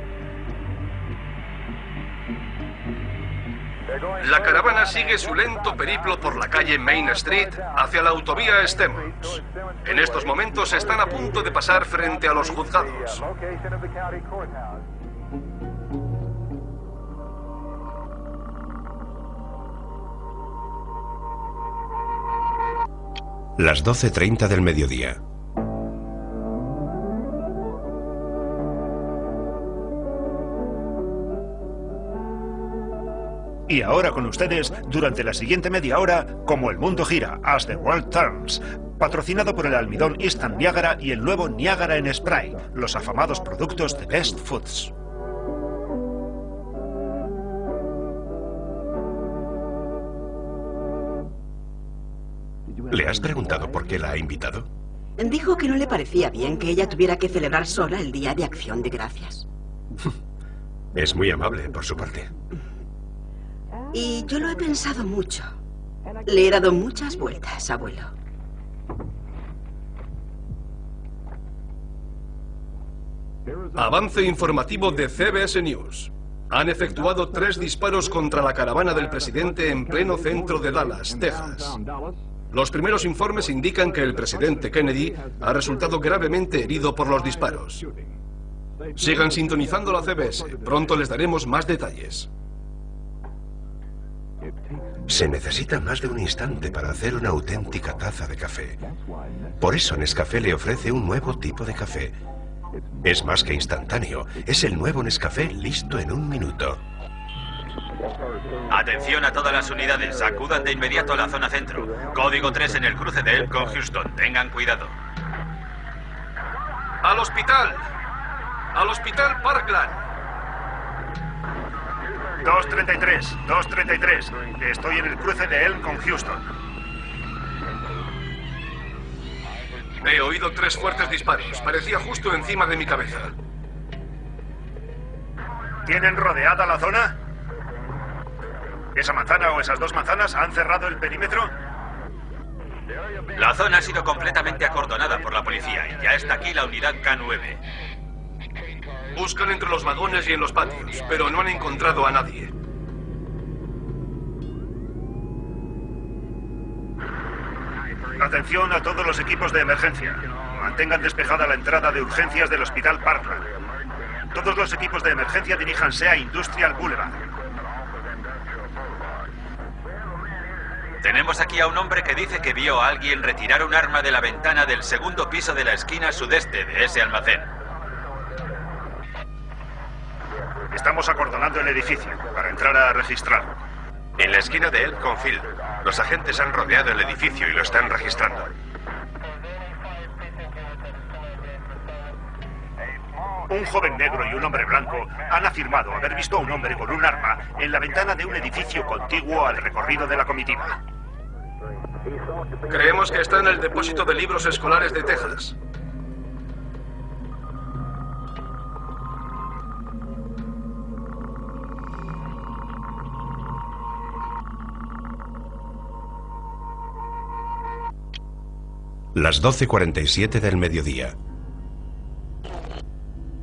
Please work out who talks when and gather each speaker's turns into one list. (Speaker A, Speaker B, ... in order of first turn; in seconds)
Speaker A: 4.2-13.3, 73.8-81.8, 82.5-87.9, 89.0-92.3, 117.0-117.9, 118.7-120.0, 130.0-133.4, 149.2-152.5, 202.7-205.6
Speaker B: 23.6-25.2, 52.9-54.7, 60.9-62.3, 95.1-98.8, 99.6-102.2, 103.0-106.8, 184.2-188.5, 219.2-221.2
Speaker C: 33.7-44.9, 122.4-126.4, 135.9-137.2, 138.9-141.5, 158.2-163.5, 164.3-167.2, 180.7-183.6, 193.5-200.8
Speaker D: 55.2-59.5, 63.9-65.5, 66.3-68.1
Speaker E: 108.7-114.9, 143.4-147.6, 171.0-177.5